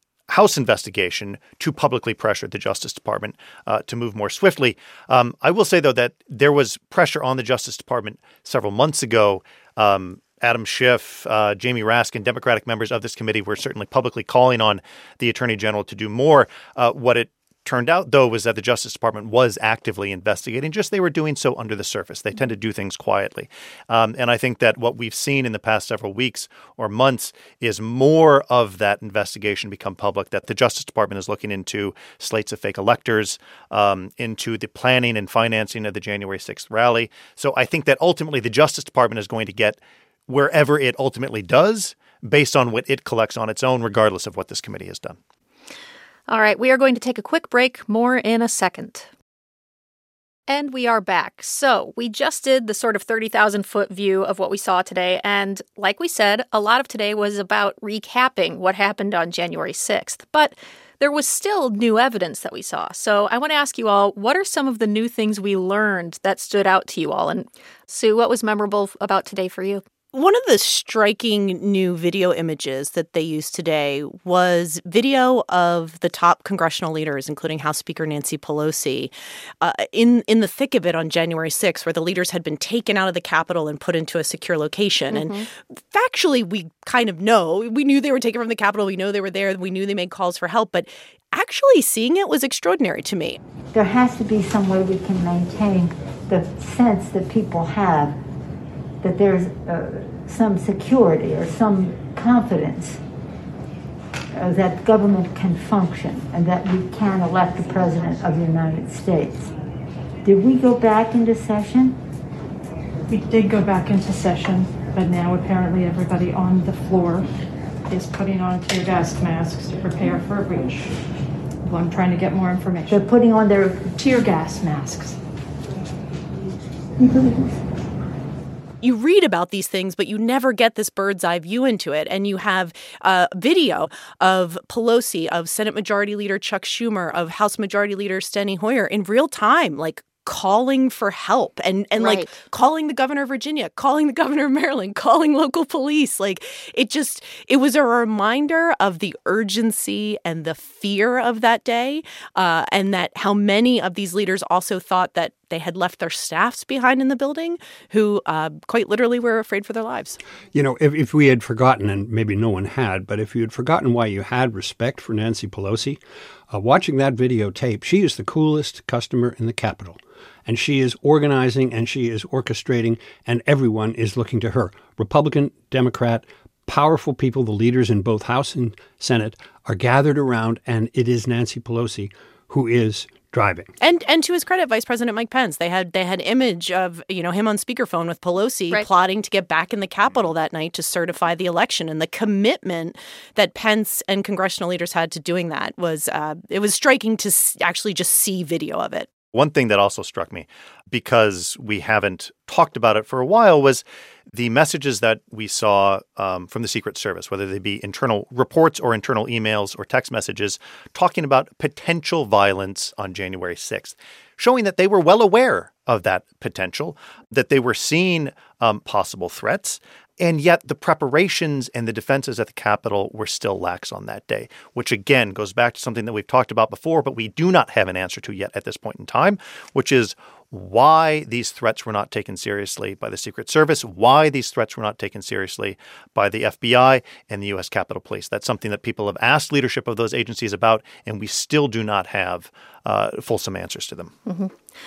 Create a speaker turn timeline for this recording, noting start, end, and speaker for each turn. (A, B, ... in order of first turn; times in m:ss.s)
0:00.3-0:45.2 A
0:46.3-0:49.1 B
0:50.5-1:09.8 B
1:10.1-1:33.4 C
1:25.1-1:25.5 B
1:33.7-1:38.2 D
1:39.0-1:43.0 D
1:44.4-1:49.5 D
1:50.2-1:52.0 D
1:53.1-1:57.3 E
1:57.9-2:01.0 E
2:01.6-2:03.0 E
2:02.9-2:03.9 D
2:04.0-2:05.2 E
2:07.0-2:07.4 D
2:08.8-2:40.2 C
2:22.0-2:22.3 B
2:40.5-2:46.0 F
2:46.5-3:03.7 F
3:03.8-3:19.1 C
3:19.3-4:04.1 A